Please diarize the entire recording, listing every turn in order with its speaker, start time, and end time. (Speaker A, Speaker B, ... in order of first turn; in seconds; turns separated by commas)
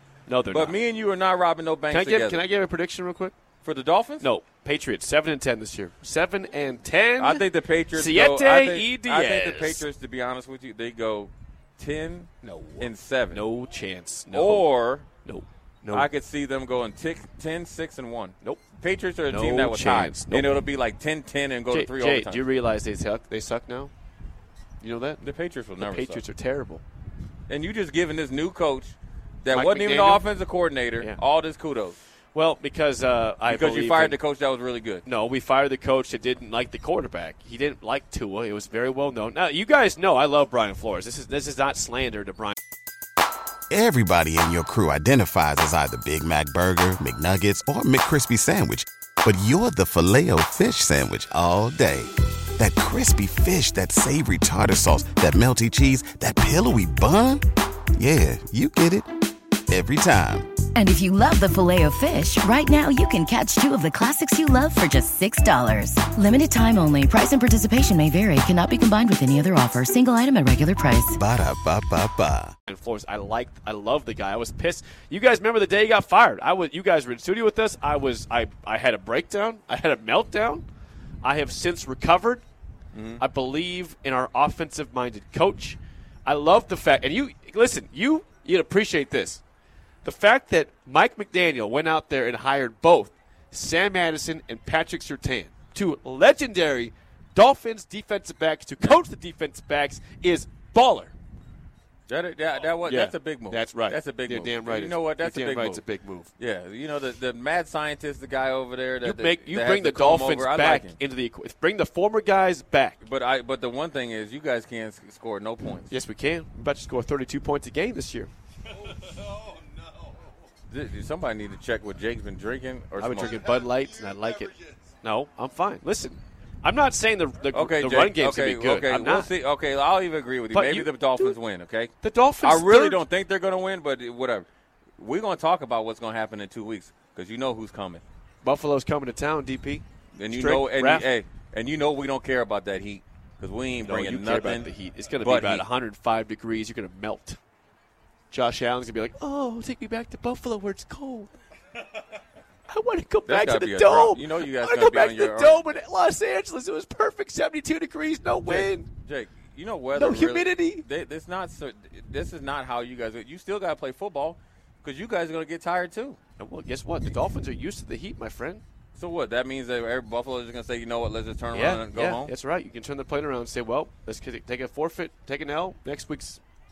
Speaker A: 0.3-0.8, Speaker B: 0.5-2.4, Speaker A: 1.9-3.3, Speaker B: 3.6-4.3, Speaker A: 4.2-9.8, Speaker B: 7.2-13.4, Speaker A: 12.4-14.7, Speaker B: 14.3-15.1, Speaker A: 15.2-16.1, Speaker B: 15.9-22.4, Speaker A: 19.3-20.6, Speaker A: 21.7-23.9, Speaker A: 24.8-25.2, Speaker B: 25.2-26.2, Speaker A: 25.8-26.8, Speaker B: 27.5-31.9, Speaker A: 29.5-30.2, Speaker A: 32.3-34.2, Speaker B: 33.5-35.0, Speaker A: 35.0-42.5, Speaker C: 43.7-57.4, Speaker C: 57.9-59.1, Speaker C: 59.7-60.5, Speaker D: 60.7-71.2, Speaker C: 71.1-72.5, Speaker A: 72.7-80.6, Speaker A: 81.2-82.4, Speaker B: 82.9-83.2, Speaker A: 83.2-89.4, Speaker A: 90.0-101.1, Speaker B: 102.1-105.8, Speaker A: 102.8-106.3, Speaker B: 106.4-111.0, Speaker A: 109.0-113.0, Speaker B: 113.0-115.9, Speaker A: 115.9-118.3, Speaker B: 120.7-123.4, Speaker A: 123.0-129.3, Speaker B: 127.5-131.9, Speaker A: 130.5-131.4, Speaker A: 132.0-133.0, Speaker B: 132.4-134.4, Speaker B: 135.0-138.0, Speaker A: 138.4-141.1, Speaker B: 140.1-144.7, Speaker A: 143.8-147.4, Speaker B: 145.2-145.7, Speaker A: 148.3-151.3, Speaker A: 152.7-158.9, Speaker B: 153.2-155.7, Speaker B: 158.4-166.2, Speaker A: 159.9-160.8, Speaker A: 166.4-168.6, Speaker B: 168.9-172.3, Speaker A: 171.5-176.4